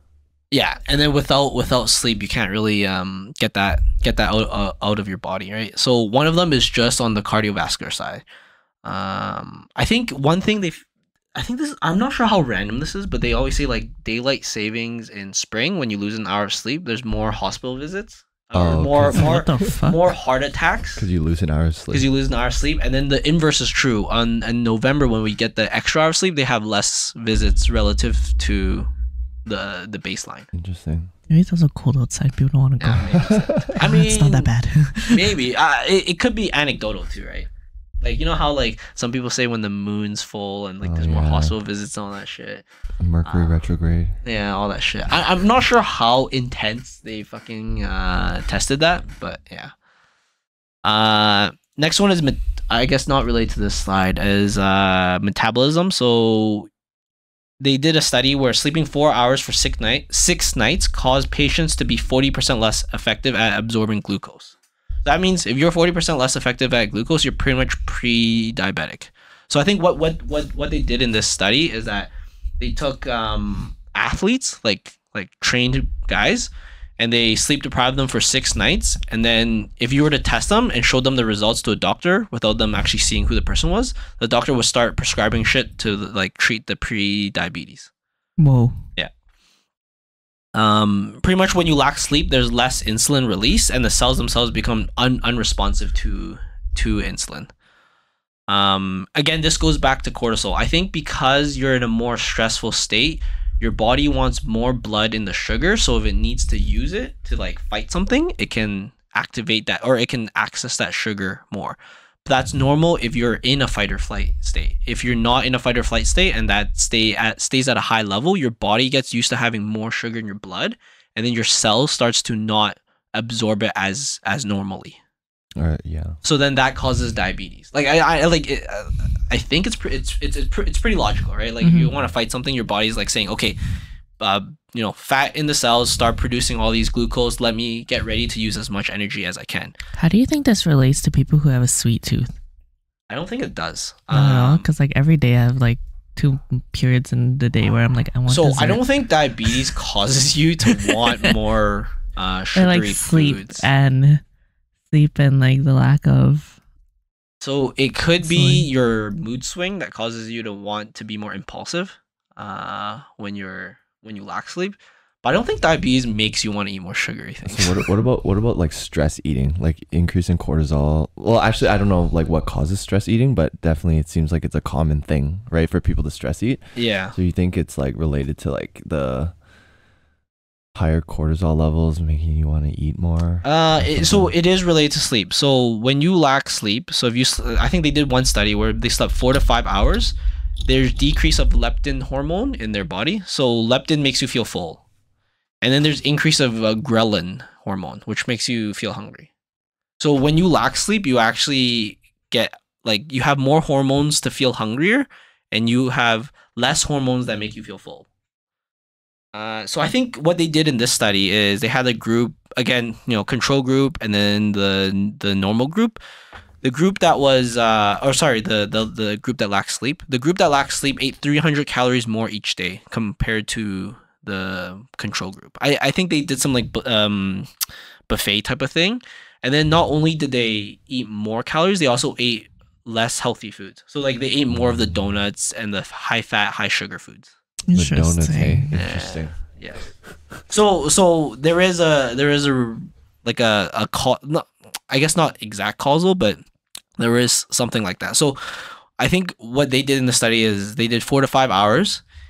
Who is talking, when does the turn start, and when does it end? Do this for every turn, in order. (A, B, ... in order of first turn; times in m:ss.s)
0:00.5-0:08.2 A
0:08.8-0:10.8 A
0:11.3-0:21.0 A
0:18.5-0:19.7 B
0:19.1-0:20.2 C
0:21.0-0:22.0 B
0:21.9-0:28.9 A
0:29.4-0:30.5 A
0:30.5-0:31.1 B
0:31.3-0:35.3 C
0:32.8-0:34.5 A
0:33.1-0:33.8 B
0:35.1-0:37.5 A
0:38.0-0:42.6 A
0:40.8-0:41.5 B
0:43.0-0:44.2 B
0:43.2-0:43.6 A
0:44.2-0:49.7 A
0:50.8-0:56.7 A
0:57.6-1:27.9 A
1:28.4-1:28.8 C
1:30.5-1:37.5 A
1:38.5-2:05.0 A
2:05.6-2:06.2 B
2:06.2-2:13.6 A
2:11.6-2:11.9 C
2:14.2-2:19.8 A
2:20.0-2:22.3 C
2:23.1-2:24.7 A
2:24.1-2:28.8 C
2:28.3-2:33.7 A
2:32.5-2:34.2 C
2:34.9-2:36.6 C
2:37.4-2:47.9 A
2:38.2-2:38.7 C
2:47.4-2:59.3 B
2:56.7-2:57.1 A
3:00.7-3:04.3 B
3:03.4-3:10.1 A
3:10.6-3:14.8 A
3:15.6-3:19.3 A
3:20.0-3:28.1 A
3:29.3-3:36.0 A
3:36.6-3:47.5 A
3:48.1-3:57.3 A
3:57.7-3:58.8 C
3:57.7-3:59.4 B
3:58.7-3:59.9 A
4:00.5-4:06.4 A
4:07.0-4:12.0 A